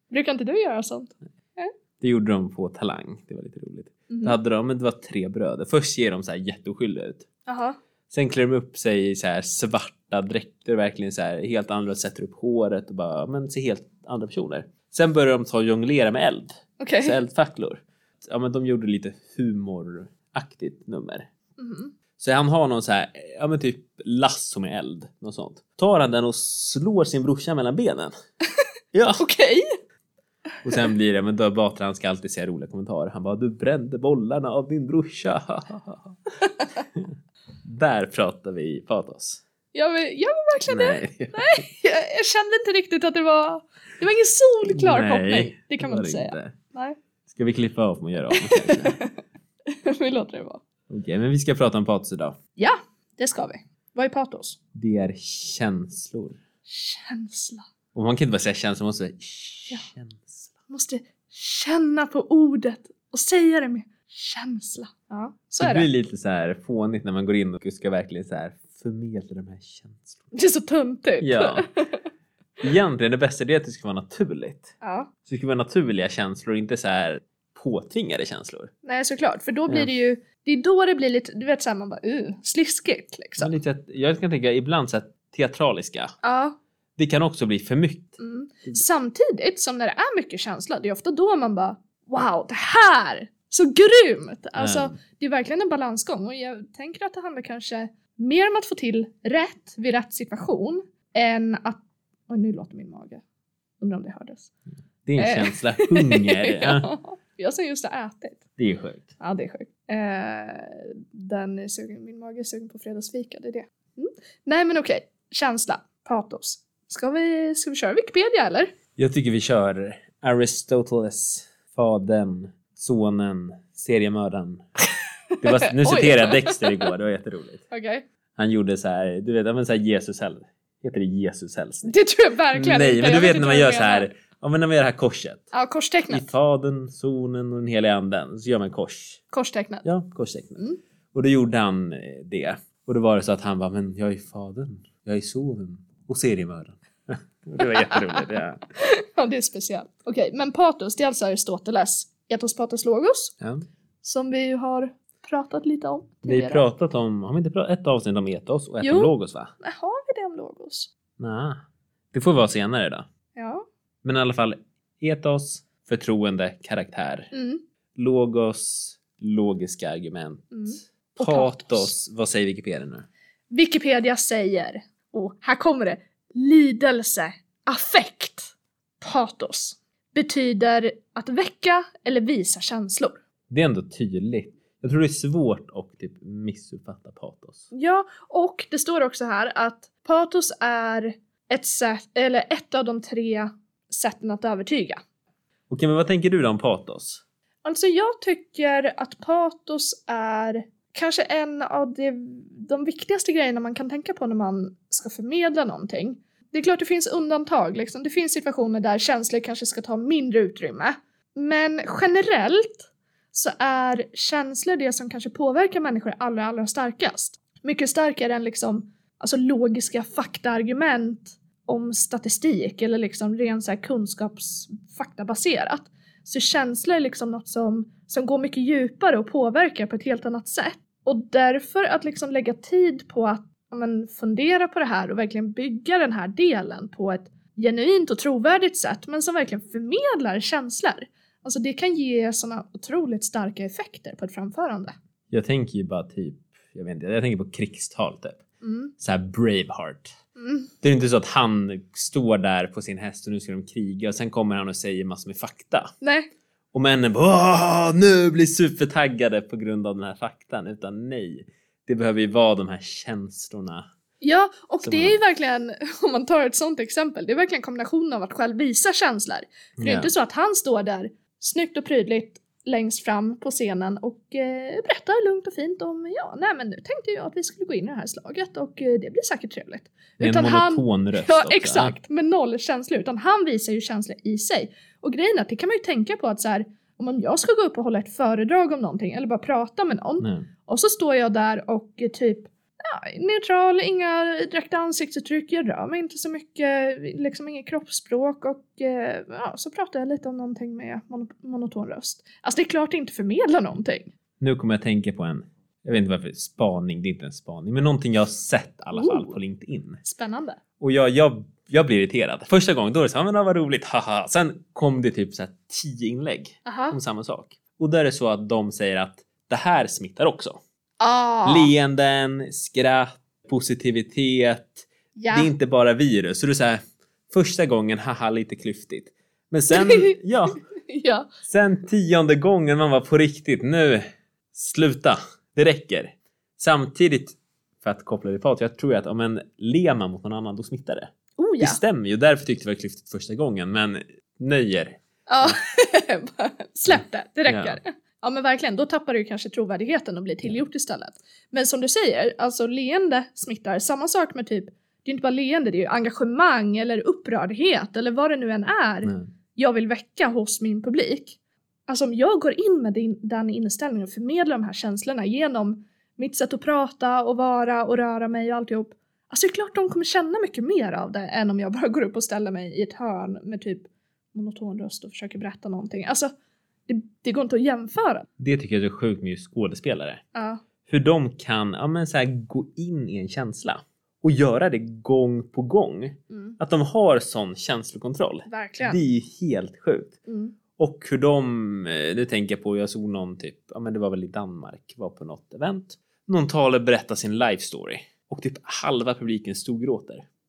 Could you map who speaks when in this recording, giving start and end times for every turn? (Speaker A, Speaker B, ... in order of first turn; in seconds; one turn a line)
Speaker A: 0.1-1.7
Speaker B: 2.0-7.2
Speaker A: 4.1-4.4
Speaker A: 7.5-7.8
Speaker B: 8.1-21.3
Speaker A: 16.8-17.2
Speaker A: 21.6-21.9
Speaker B: 22.2-28.1
Speaker B: 28.9-29.2
Speaker A: 29.1-29.8
Speaker B: 30.6-36.2
Speaker A: 36.4-36.8
Speaker B: 37.6-39.4
Speaker A: 39.7-47.0
Speaker B: 40.7-41.6
Speaker B: 44.7-46.5
Speaker B: 47.3-49.0
Speaker A: 48.3-49.1
Speaker A: 49.7-50.6
Speaker B: 50.9-52.4
Speaker A: 52.6-54.6
Speaker B: 54.7-56.4
Speaker A: 56.7-57.6
Speaker B: 57.9-60.5
Speaker A: 60.7-65.9
Speaker B: 65.6-70.2
Speaker A: 70.3-72.0
Speaker B: 71.2-71.7
Speaker B: 72.6-74.7
Speaker A: 74.8-75.1
Speaker B: 75.2-78.7
Speaker A: 78.8-83.5
Speaker B: 83.4-86.1
Speaker A: 86.2-86.6
Speaker B: 87.0-88.2
Speaker A: 88.2-103.2
Speaker B: 94.6-94.9
Speaker A: 103.8-104.5
Speaker B: 105.0-106.9
Speaker A: 105.2-108.4
Speaker B: 108.6-109.1
Speaker A: 109.2-118.7
Speaker B: 119.0-124.6
Speaker A: 125.3-126.8
Speaker B: 125.4-127.6
Speaker A: 127.7-128.0
Speaker B: 128.4-131.9
Speaker A: 131.8-134.1
Speaker B: 132.5-135.5
Speaker A: 135.5-136.2
Speaker B: 136.1-139.2
Speaker A: 139.3-139.8
Speaker B: 139.8-148.6
Speaker A: 147.6-148.2
Speaker A: 148.8-153.3
Speaker A: 154.0-156.7
Speaker B: 156.2-159.5
Speaker A: 158.8-160.9
Speaker B: 161.2-161.6
Speaker B: 162.1-163.0
Speaker A: 163.3-163.7
Speaker B: 164.0-167.3
Speaker A: 167.3-167.6
Speaker B: 167.9-170.5
Speaker A: 170.5-171.9
Speaker B: 171.2-173.1
Speaker A: 173.5-183.2
Speaker B: 183.5-187.7
Speaker A: 187.7-195.0
Speaker B: 195.7-197.2
Speaker A: 197.6-244.9
Speaker B: 245.3-248.4
Speaker A: 248.6-248.9
Speaker B: 249.0-250.1
Speaker A: 250.4-250.7
Speaker B: 250.8-255.9
Speaker A: 256.0-256.3
Speaker B: 256.7-263.9
Speaker A: 264.2-304.1
Speaker B: 264.8-265.2
Speaker B: 269.8-270.1
Speaker B: 280.2-281.9
Speaker B: 290.2-290.5
Speaker B: 304.4-310.0
Speaker A: 308.9-309.3
Speaker A: 310.0-310.6
Speaker B: 310.8-320.6
Speaker A: 316.6-317.0
Speaker A: 321.0-321.7
Speaker B: 321.4-330.6
Speaker A: 325.1-325.5
Speaker A: 329.7-330.1
Speaker A: 330.9-331.3
Speaker B: 331.4-345.6
Speaker A: 341.4-341.8
Speaker A: 345.3-361.4
Speaker B: 347.5-347.8
Speaker A: 361.9-376.3
Speaker A: 376.9-378.3
Speaker B: 378.4-380.2
Speaker A: 380.3-380.6
Speaker B: 380.9-390.2
Speaker A: 386.3-386.6
Speaker A: 388.5-389.0
Speaker A: 390.3-390.6
Speaker B: 390.8-400.2